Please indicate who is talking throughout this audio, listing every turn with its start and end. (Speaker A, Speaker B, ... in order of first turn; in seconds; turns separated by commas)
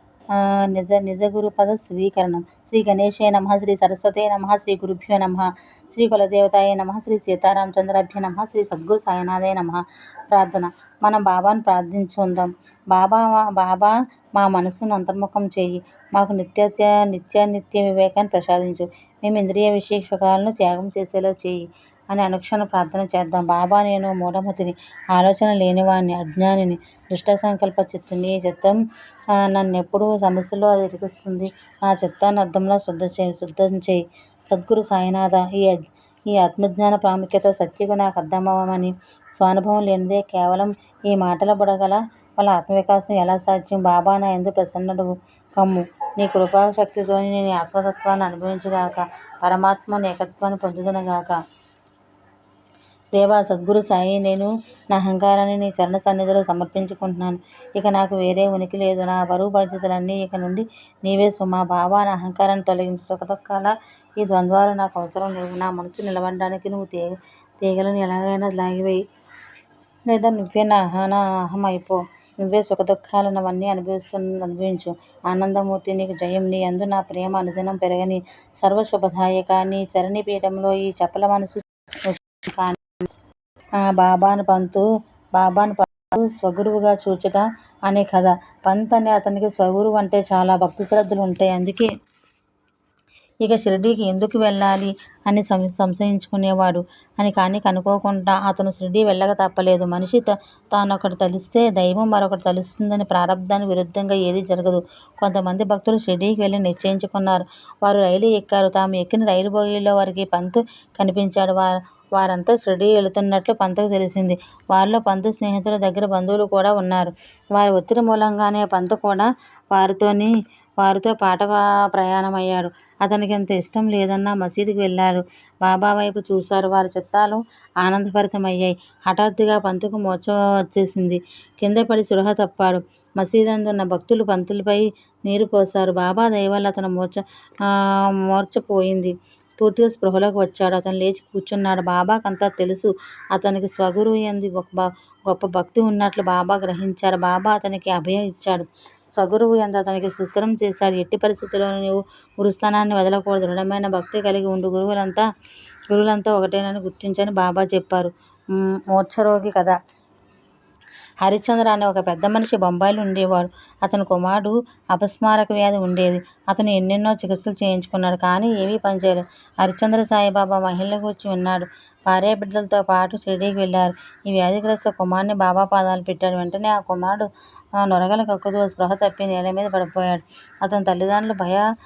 Speaker A: 0.3-28.8, Speaker A: 29.3-51.4, Speaker A: 53.1-69.0, Speaker A: 70.1-82.8, Speaker A: 83.8-84.8, Speaker A: 85.3-91.9, Speaker A: 93.4-155.2, Speaker A: 155.9-159.8, Speaker A: 161.2-177.3, Speaker A: 177.8-181.7